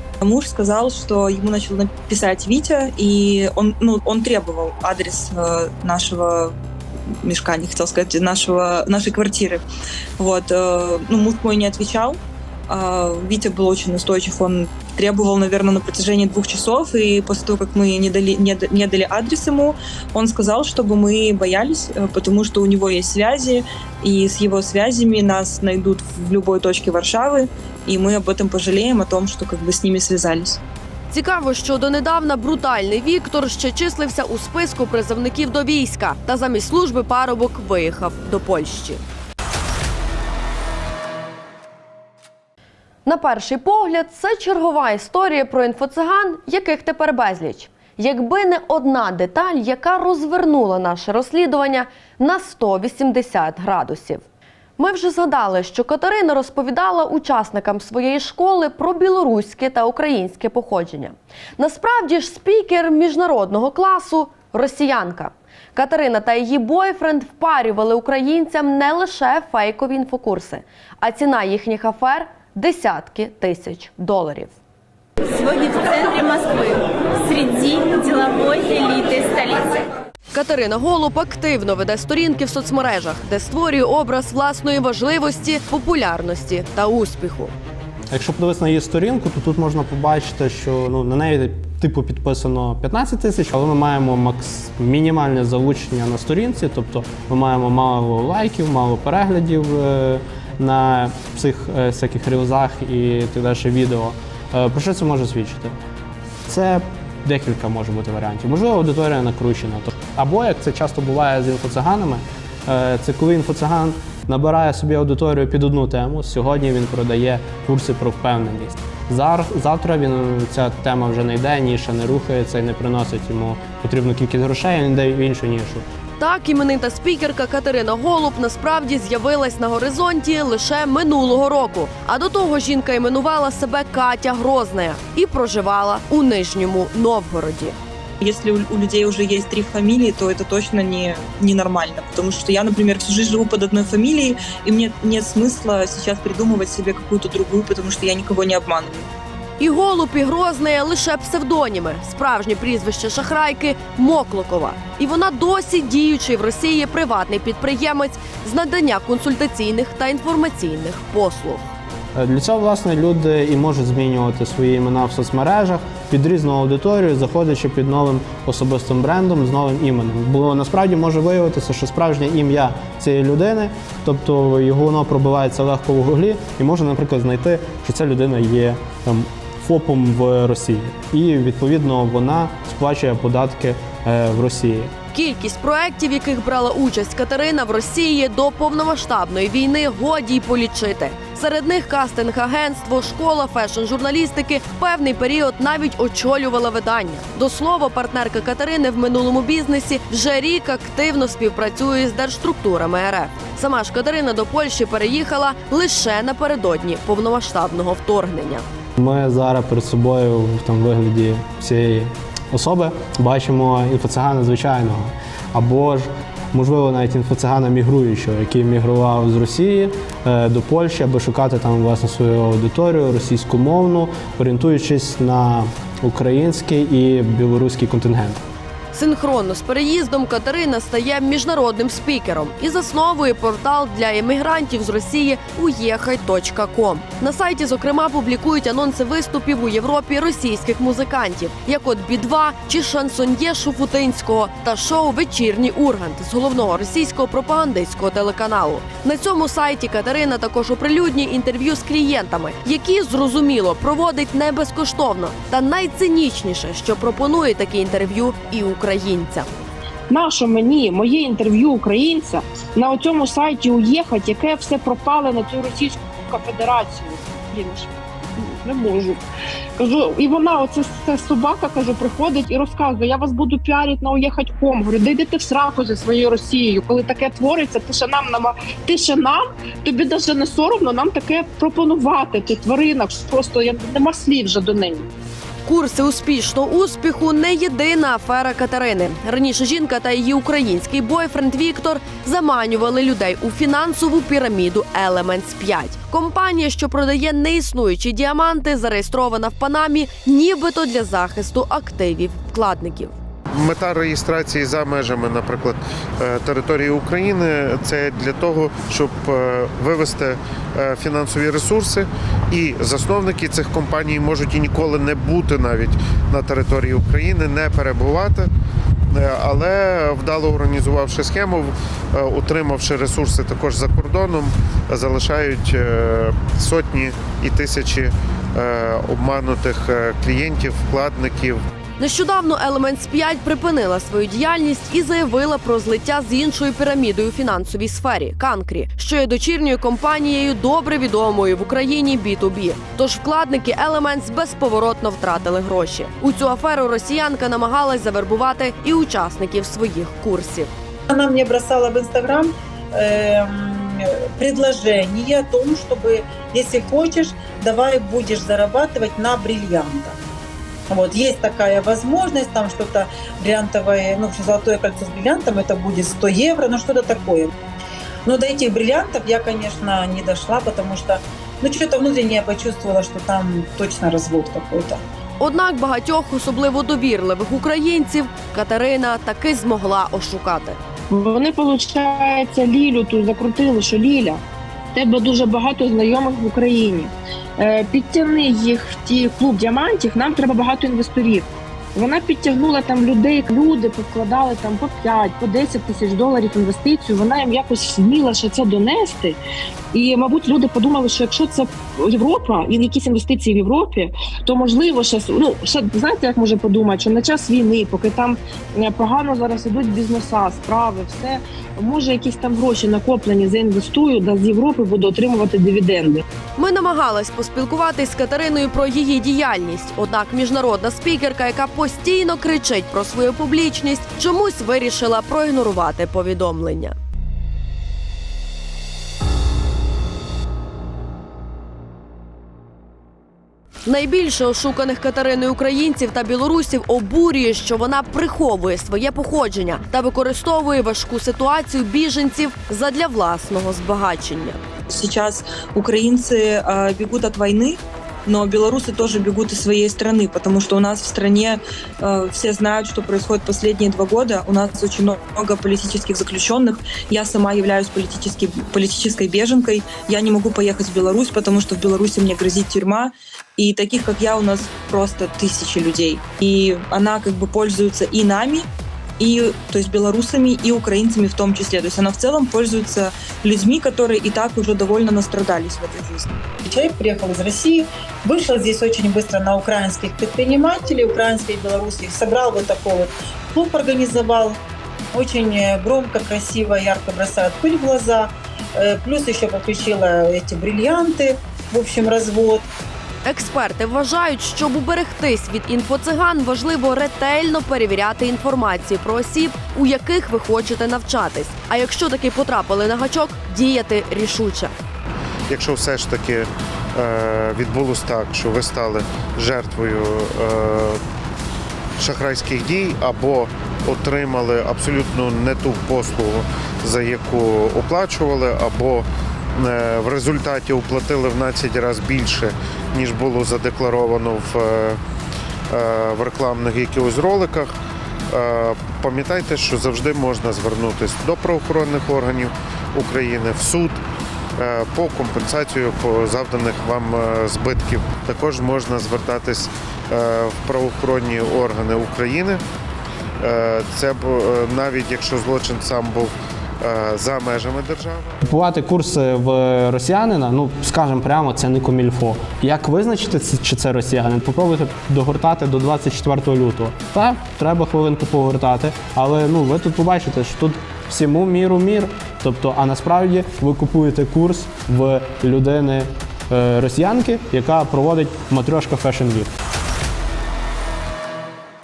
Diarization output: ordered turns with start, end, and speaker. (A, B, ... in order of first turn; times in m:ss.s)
0:00.2-0:06.5 A
0:07.2-0:09.6 A
0:10.2-0:30.6 A
0:31.1-0:39.0 B
0:43.0-0:54.2 B
0:54.8-1:14.5 B
1:15.4-1:16.7 C
1:17.2-1:19.6 C
1:20.3-1:27.5 B
1:28.1-1:45.7 D
1:46.5-2:05.8 D
2:06.2-2:17.8 B
2:18.2-2:29.1 A
2:29.6-2:41.7 B
2:42.1-3:04.9 D
3:05.1-3:28.6 B
3:29.0-3:48.4 D
3:48.9-4:19.5 B
4:20.1-4:29.2 E
4:29.8-4:45.1 E
4:45.6-5:03.1 B
5:03.5-5:18.5 F
5:19.1-5:31.6 F
5:32.0-5:50.7 B
5:51.1-6:00.2 G
6:00.9-6:07.5 G
6:08.2-6:15.0 G
6:15.4-6:20.8 B
6:21.1-6:24.4 E
6:24.9-6:39.4 E
6:39.9-6:56.2 E
6:56.6-7:06.9 B
7:13.8-7:24.6 B
7:24.9-7:48.7 A
7:49.2-7:56.3 A
7:56.6-8:04.6 G
8:05.1-8:12.6 G
8:13.2-8:24.7 B
8:25.5-8:31.0 F
8:32.0-8:39.0 F
8:39.6-8:45.0 F
8:45.7-8:47.7 F
8:48.3-8:54.0 F
8:54.6-9:02.6 F
9:03.4-9:08.3 F
9:08.4-9:29.5 D